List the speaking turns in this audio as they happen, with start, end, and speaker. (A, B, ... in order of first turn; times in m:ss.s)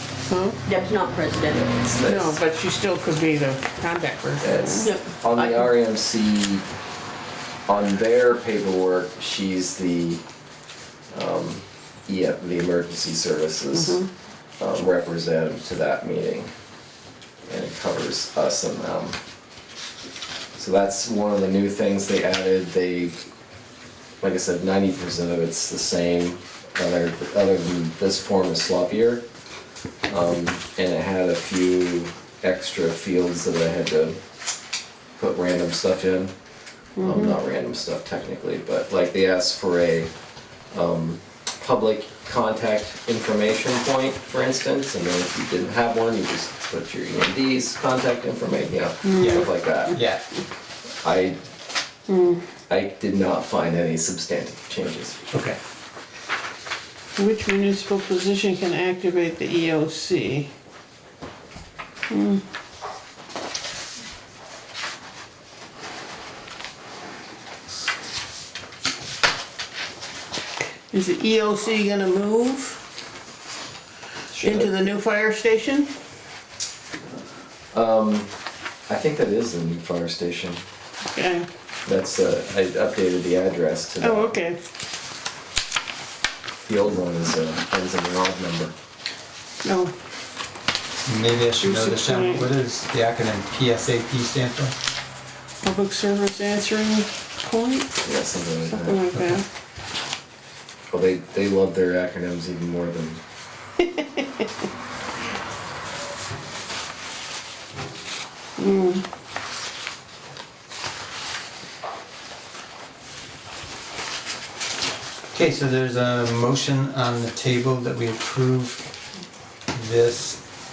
0:00.3-0:00.6 A
0:00.6-0:01.7 B
0:01.7-0:02.4 C
0:02.0-0:04.9 A
0:04.4-0:06.6 C
0:04.8-0:05.6 B
0:07.7-0:10.2 C
0:11.1-0:14.0 C
0:13.7-0:14.1 A
0:14.6-0:16.5 C
0:17.4-0:19.2 C
0:20.6-0:23.2 C
0:24.2-0:29.2 C
0:30.1-0:34.2 C
0:35.2-0:36.3 C
0:37.0-0:37.4 A
0:37.0-0:40.1 C
0:40.7-0:50.0 C
0:49.0-0:49.4 A
0:49.2-0:50.2 D
0:51.0-0:51.4 C
0:52.1-0:52.4 A
0:52.7-0:55.2 C
0:55.3-0:55.6 D
0:57.2-1:00.5 A
1:02.1-1:02.4 A
1:10.9-1:12.8 A
1:14.3-1:14.7 C
1:14.4-1:15.9 A
1:17.7-1:18.3 C
1:18.9-1:20.6 C
1:21.1-1:21.5 A
1:21.8-1:24.4 C
1:24.0-1:24.6 A
1:26.6-1:28.7 C
1:29.6-1:29.9 A
1:31.0-1:34.7 D
1:31.6-1:32.5 A
1:35.6-1:38.0 A
1:38.0-1:39.0 C
1:38.7-1:39.4 A
1:39.1-1:39.4 D
1:40.9-1:43.2 C
1:48.6-1:49.0 A
1:55.3-1:58.9 D
1:59.7-2:00.4 D